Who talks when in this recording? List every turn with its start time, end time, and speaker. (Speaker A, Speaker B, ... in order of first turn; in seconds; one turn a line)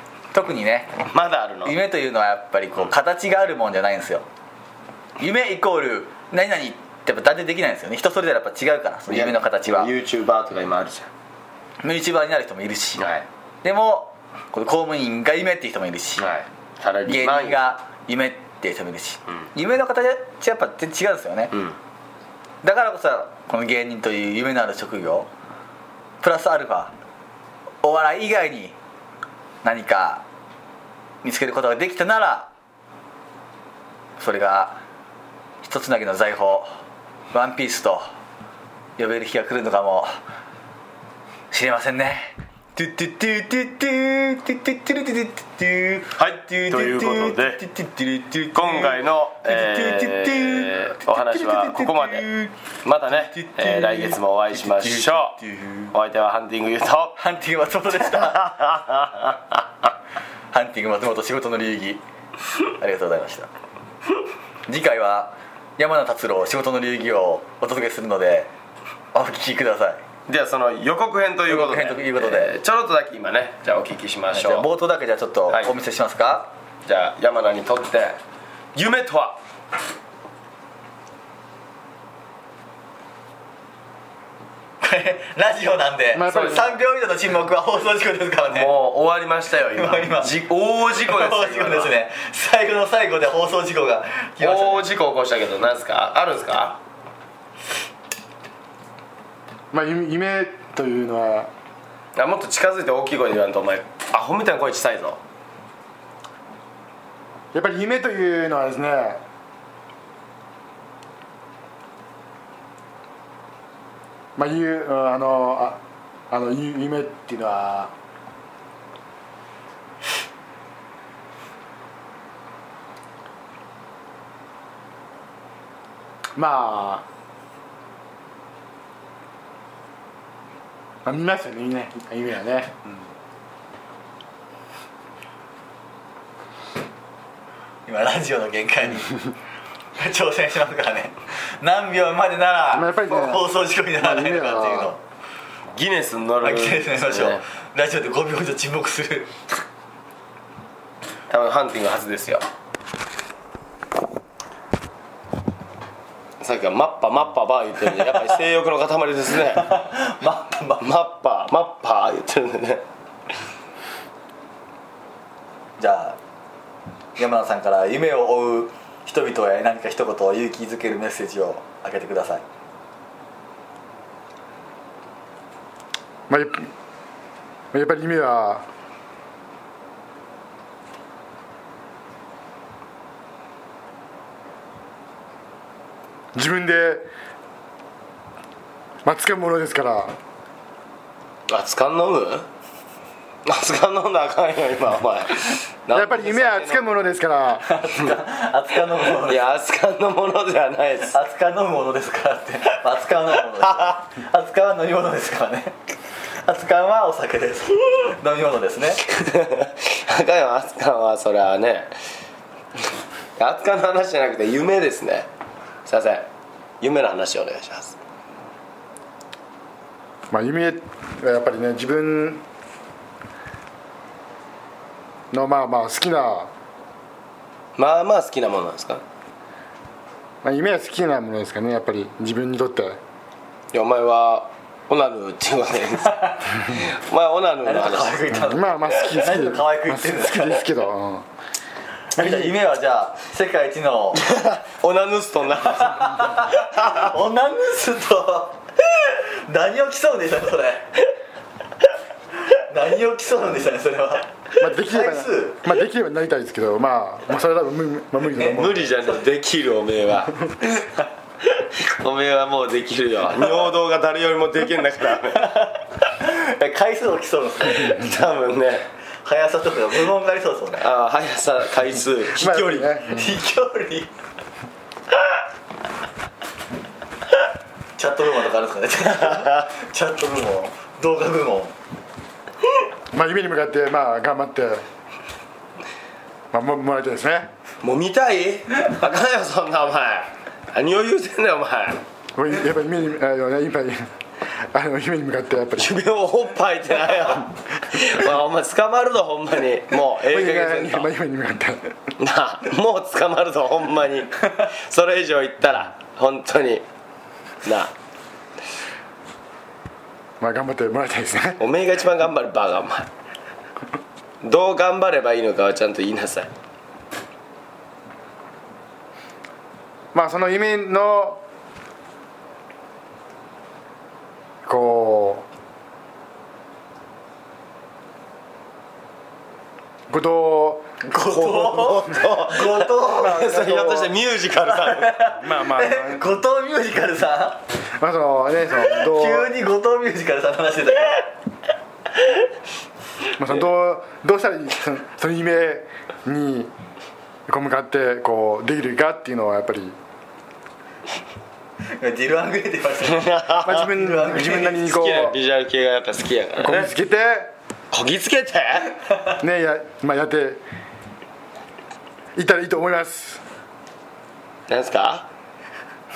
Speaker A: 0.3-1.0
Speaker B: 1.1-1.8
Speaker A: 1.6-4.2
Speaker A: 5.2-9.9
Speaker B: 9.1-11.1
Speaker A: 11.8-13.1
Speaker B: 13.0-13.2
Speaker A: 13.6-16.3
Speaker B: 16.2-17.6
Speaker A: 17.0-21.5
Speaker B: 21.5-21.8
Speaker A: 22.6-25.3
Speaker A: 26.2-26.9
Speaker A: 27.8-28.8
Speaker A: 29.6-30.2
Speaker A: 31.2-32.5
Speaker A: 34.2-34.8
Speaker A: 35.6-36.7
Speaker A: 37.3-38.1
Speaker A: 39.0-40.1
Speaker A: 41.5-52.5
Speaker B: 46.2-47.6
Speaker B: 48.5-52.3
Speaker B: 52.8-55.4
Speaker A: 53.1-55.9
Speaker B: 55.9-57.2
Speaker A: 57.2-58.5
Speaker B: 58.1-59.6
Speaker A: 60.5-62.0
Speaker A: 62.8-63.5
Speaker A: 64.7-68.5
Speaker A: 69.1-70.0
Speaker B: 70.3-74.7
Speaker A: 71.5-72.5
Speaker A: 74.3-76.5
Speaker B: 76.8-78.2
Speaker B: 78.7-79.4
Speaker A: 84.8-88.7
Speaker C: 86.1-86.7
Speaker B: 88.5-91.9
Speaker A: 89.7-90.3
Speaker A: 91.0-94.9
Speaker B: 94.4-96.8
Speaker C: 99.7-101.5
Speaker B: 102.2-105.2
Speaker C: 107.5-109.2
Speaker C: 114.3-115.8
Speaker C: 116.3-117.9
Speaker C: 126.3-127.0
Speaker C: 131.0-132.9
Speaker A: 137.8-139.1
Speaker A: 139.9-145.0
Speaker C: 142.7-144.9
Speaker B: 145.8-147.4
Speaker A: 146.4-149.3
Speaker B: 151.3-152.4
Speaker B: 156.4-159.7
Speaker A: 159.6-160.8
Speaker B: 160.8-162.8
Speaker A: 165.8-166.2
Speaker A: 167.2-172.4
Speaker C: 176.3-176.7
Speaker C: 177.7-178.6
Speaker C: 186.3-187.1
Speaker C: 189.0-190.2
Speaker B: 191.5-192.5
Speaker B: 193.4-196.9
Speaker C: 195.9-197.7
Speaker A: 197.6-199.5
Speaker B: 199.0-201.2
Speaker A: 201.1-205.8
Speaker B: 203.7-203.9
Speaker A: 206.4-209.0
Speaker B: 209.1-211.9
Speaker B: 213.4-215.3
Speaker B: 215.8-216.3
Speaker B: 216.8-218.0
Speaker C: 220.3-222.4
Speaker C: 225.3-226.5
Speaker B: 227.8-229.0
Speaker C: 230.4-233.0
Speaker B: 233.7-238.2
Speaker A: 236.1-236.4
Speaker A: 237.6-240.7
Speaker C: 238.3-241.2
Speaker A: 242.1-244.2
Speaker B: 242.2-242.5
Speaker B: 244.1-247.1
Speaker A: 245.8-250.9
Speaker A: 252.5-255.7
Speaker C: 254.6-258.9
Speaker B: 258.5-260.4
Speaker B: 261.6-265.5
Speaker A: 265.3-268.1
Speaker B: 267.8-268.9
Speaker A: 269.2-270.9
Speaker B: 270.8-272.9
Speaker C: 272.3-273.3
Speaker A: 273.1-274.1
Speaker A: 278.0-281.7
Speaker B: 279.4-279.7
Speaker C: 283.1-284.8
Speaker C: 286.5-287.5
Speaker B: 287.8-292.0
Speaker C: 292.4-294.1
Speaker C: 294.7-296.0
Speaker B: 295.8-301.1
Speaker C: 300.3-301.9
Speaker B: 302.2-306.8
Speaker B: 307.6-307.9
Speaker C: 310.4-311.6
Speaker B: 311.6-313.1
Speaker B: 314.4-316.5
Speaker C: 320.1-321.4
Speaker C: 324.6-325.4
Speaker C: 330.1-330.9
Speaker A: 331.0-333.6
Speaker B: 331.3-335.3
Speaker C: 333.1-334.1
Speaker A: 334.6-337.6
Speaker C: 335.4-336.2
Speaker C: 338.0-339.5
Speaker A: 338.8-341.3
Speaker C: 343.4-346.7
Speaker C: 347.5-349.9
Speaker A: 352.0-354.9
Speaker B: 353.0-353.9
Speaker C: 353.6-355.4
Speaker B: 354.9-356.9
Speaker C: 356.6-357.5
Speaker B: 357.9-358.9
Speaker C: 359.4-360.6
Speaker C: 362.3-363.4
Speaker B: 364.7-365.3